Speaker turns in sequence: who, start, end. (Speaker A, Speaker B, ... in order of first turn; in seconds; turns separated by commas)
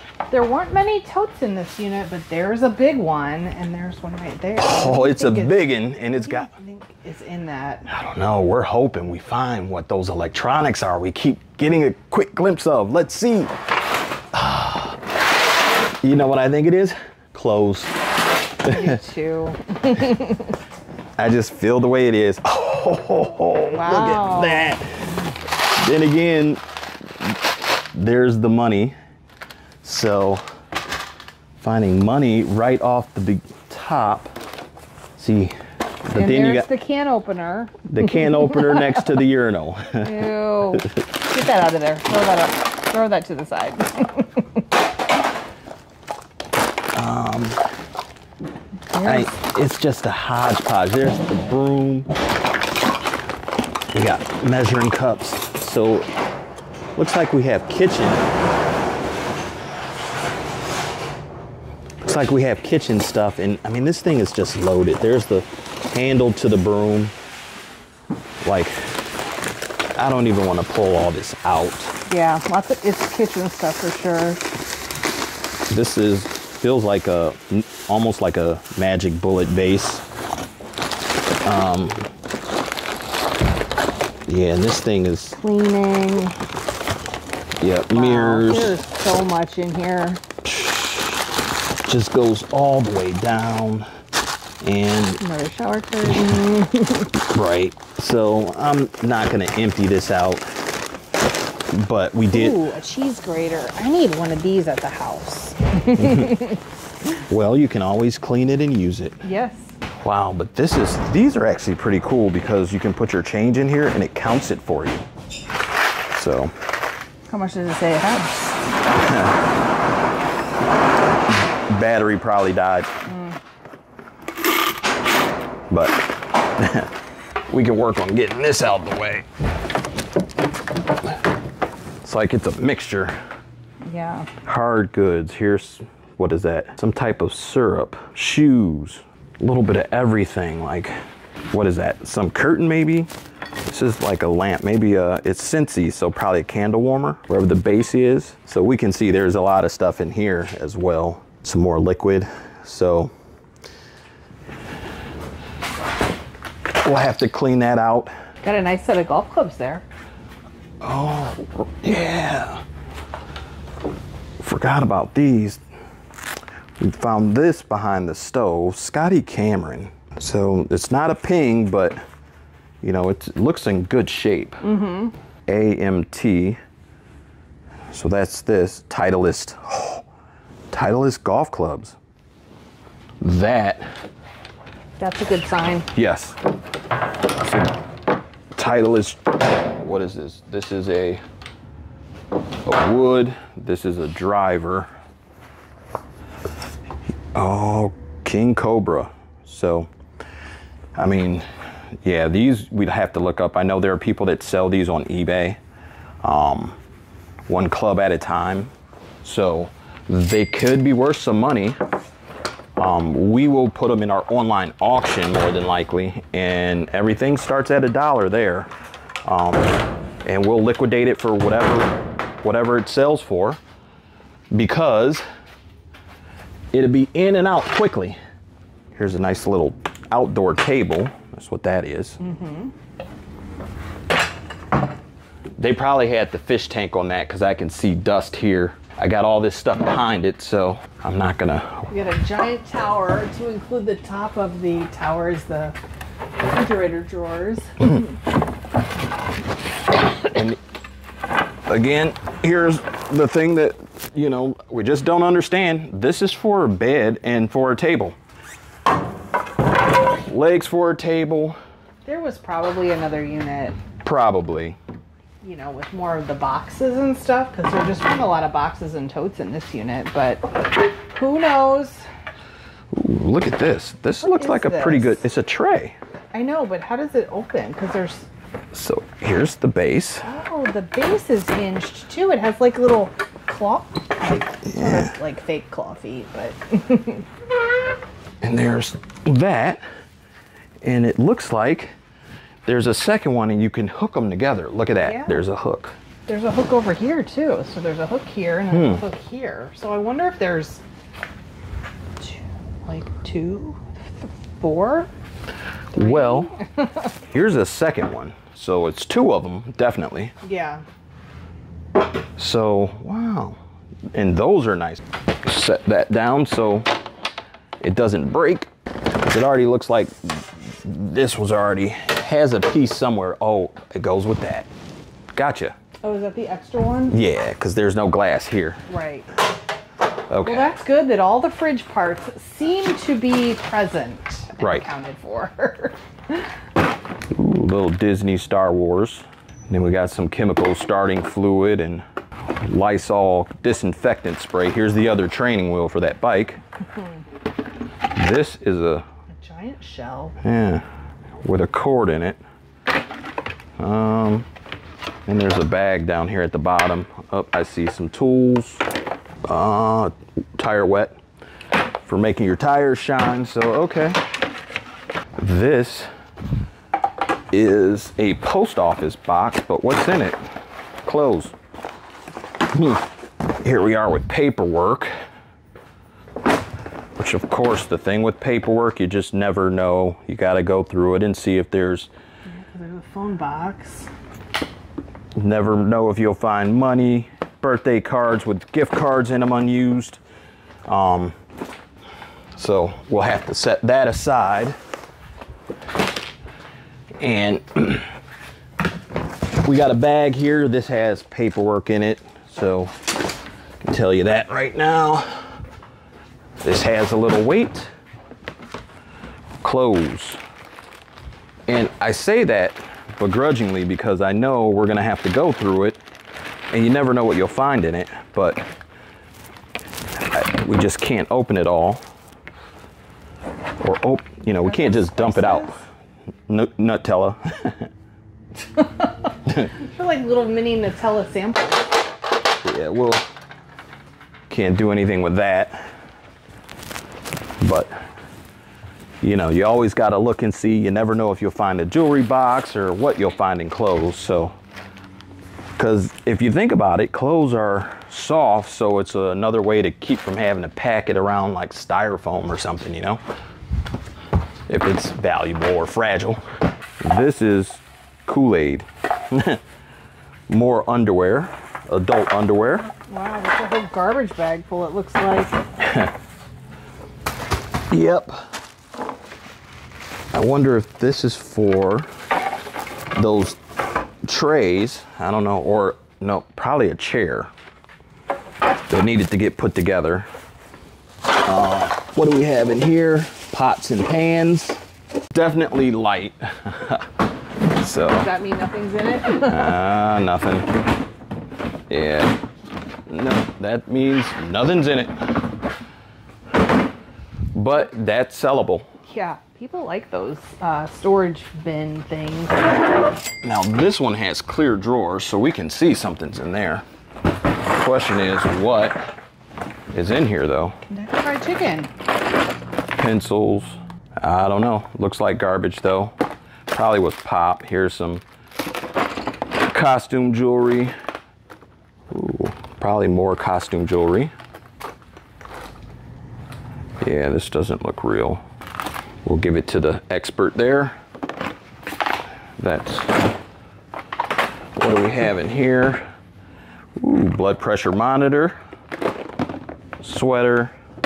Speaker A: 0.3-7.9, Speaker B: 4.6-6.5, Speaker B: 7.9-13.5, Speaker B: 14.3-15.0, Speaker B: 16.0-17.9, Speaker B: 18.6-19.0, Speaker A: 18.6-20.5, Speaker B: 21.2-25.1, Speaker A: 23.7-24.8, Speaker B: 25.8-26.6, Speaker B: 27.9-28.9, Speaker B: 29.8-30.4, Speaker B: 31.6-34.3, Speaker B: 35.2-36.7, Speaker A: 36.1-39.2, Speaker B: 37.9-40.1, Speaker A: 40.0-44.7, Speaker B: 46.9-47.6, Speaker A: 48.9-49.3, Speaker B: 49.0-52.1, Speaker B: 53.9-56.1, Speaker B: 57.0-58.2, Speaker B: 62.0-67.1, Speaker B: 68.4-68.9, Speaker B: 70.0-72.0, Speaker A: 72.1-74.4, Speaker B: 75.7-80.0, Speaker B: 81.4-82.1, Speaker B: 84.3-85.4, Speaker A: 85.4-86.4, Speaker B: 87.6-88.7, Speaker A: 87.9-90.2, Speaker B: 90.4-91.2, Speaker B: 91.9-93.9, Speaker B: 94.6-95.2, Speaker A: 95.2-97.1, Speaker B: 97.3-100.5, Speaker B: 101.7-102.6, Speaker A: 102.3-106.6, Speaker B: 106.0-106.4, Speaker B: 107.2-109.2, Speaker A: 109.2-109.8, Speaker B: 110.0-115.0, Speaker B: 116.1-116.5, Speaker A: 117.3-118.5, Speaker B: 119.0-119.4, Speaker B: 121.4-122.9, Speaker A: 123.0-123.4, Speaker B: 125.7-126.0, Speaker B: 126.6-126.9, Speaker B: 127.5-129.3, Speaker B: 132.0-133.2, Speaker A: 133.8-134.3, Speaker B: 134.4-140.9, Speaker B: 141.5-143.1, Speaker B: 143.7-153.1, Speaker B: 156.8-158.1, Speaker A: 158.4-159.8, Speaker B: 160.8-162.6, Speaker B: 164.4-165.6, Speaker B: 166.8-172.0, Speaker B: 172.8-174.6, Speaker A: 174.6-175.1, Speaker B: 175.5-176.6, Speaker B: 177.9-180.0, Speaker B: 180.7-182.0, Speaker B: 183.2-183.9, Speaker A: 185.0-185.9, Speaker B: 185.9-186.4, Speaker B: 187.4-187.7, Speaker B: 188.6-189.2, Speaker B: 189.8-191.2, Speaker B: 192.7-194.9, Speaker B: 197.3-199.9, Speaker B: 201.0-201.5, Speaker B: 202.0-205.6, Speaker B: 206.2-206.8, Speaker B: 207.5-208.7, Speaker B: 209.2-211.8, Speaker B: 212.8-218.7, Speaker B: 219.2-223.6, Speaker B: 224.5-225.2, Speaker B: 226.7-228.2, Speaker B: 228.9-232.2, Speaker A: 232.2-232.7, Speaker B: 235.6-241.9, Speaker A: 241.9-245.8, Speaker A: 246.4-248.1, Speaker B: 250.3-250.6, Speaker B: 251.7-258.2, Speaker B: 260.3-261.6, Speaker A: 262.1-263.8, Speaker B: 264.0-264.8, Speaker A: 265.4-270.5, Speaker A: 271.1-272.1, Speaker B: 272.9-275.9, Speaker A: 274.2-275.2, Speaker A: 276.3-278.3, Speaker B: 278.7-280.3, Speaker A: 280.2-287.3, Speaker B: 284.6-285.1, Speaker B: 288.4-289.8, Speaker B: 290.8-291.9, Speaker B: 292.7-296.0, Speaker A: 295.1-295.4, Speaker A: 296.3-300.8, Speaker B: 298.7-299.0, Speaker A: 302.2-305.1, Speaker B: 305.9-306.5, Speaker A: 305.9-307.1, Speaker B: 307.3-310.3, Speaker A: 310.4-310.8, Speaker B: 312.4-313.6, Speaker B: 314.1-316.9, Speaker B: 317.8-318.7, Speaker B: 319.2-324.7, Speaker B: 325.4-325.8, Speaker A: 326.0-327.2, Speaker B: 327.1-328.8, Speaker A: 328.9-329.3, Speaker B: 330.3-330.7, Speaker A: 330.4-336.5, Speaker B: 334.6-334.9, Speaker B: 337.3-342.0, Speaker B: 342.6-346.6, Speaker B: 348.1-349.0, Speaker A: 349.3-350.4, Speaker B: 350.4-350.8, Speaker B: 351.4-352.4, Speaker B: 353.8-354.5, Speaker B: 355.3-358.8, Speaker B: 359.4-361.2, Speaker B: 362.1-364.2, Speaker B: 365.4-366.1, Speaker B: 367.5-370.4, Speaker B: 371.0-371.6, Speaker B: 372.7-373.0, Speaker B: 373.6-375.1, Speaker B: 377.2-382.1, Speaker A: 382.5-384.1, Speaker B: 385.4-390.2, Speaker B: 390.9-391.4, Speaker B: 392.6-394.8, Speaker B: 397.2-398.1, Speaker B: 399.6-402.9, Speaker B: 403.8-405.6, Speaker B: 406.6-407.9, Speaker B: 409.6-410.4, Speaker B: 411.7-416.0, Speaker B: 416.7-418.6, Speaker B: 420.3-422.0, Speaker B: 423.8-425.7, Speaker A: 424.6-425.8, Speaker B: 426.5-427.9, Speaker A: 428.8-429.1, Speaker A: 429.6-431.9, Speaker B: 432.6-433.3, Speaker B: 434.5-435.9, Speaker B: 437.6-437.9, Speaker B: 439.2-444.6, Speaker B: 445.8-453.2, Speaker B: 454.7-456.4, Speaker B: 457.0-459.6, Speaker B: 460.5-462.9, Speaker A: 463.1-465.6, Speaker B: 465.8-466.1, Speaker B: 467.9-468.4, Speaker B: 470.3-472.1, Speaker B: 473.1-473.6, Speaker B: 474.3-477.5, Speaker B: 478.9-480.3, Speaker B: 481.4-484.8, Speaker B: 485.3-487.1, Speaker B: 487.8-488.3, Speaker A: 488.1-489.8, Speaker B: 489.5-490.7, Speaker B: 491.9-492.4, Speaker B: 493.1-495.1, Speaker B: 497.5-498.9, Speaker A: 499.1-502.8, Speaker B: 503.4-506.8, Speaker B: 507.7-509.0, Speaker B: 509.9-510.8, Speaker A: 510.9-511.9, Speaker B: 513.0-516.1, Speaker B: 516.7-518.2, Speaker B: 519.7-520.9, Speaker B: 522.1-524.3, Speaker B: 527.0-528.4, Speaker B: 529.2-531.0, Speaker B: 532.6-533.2, Speaker B: 534.8-536.0, Speaker B: 537.0-538.6, Speaker B: 540.0-540.7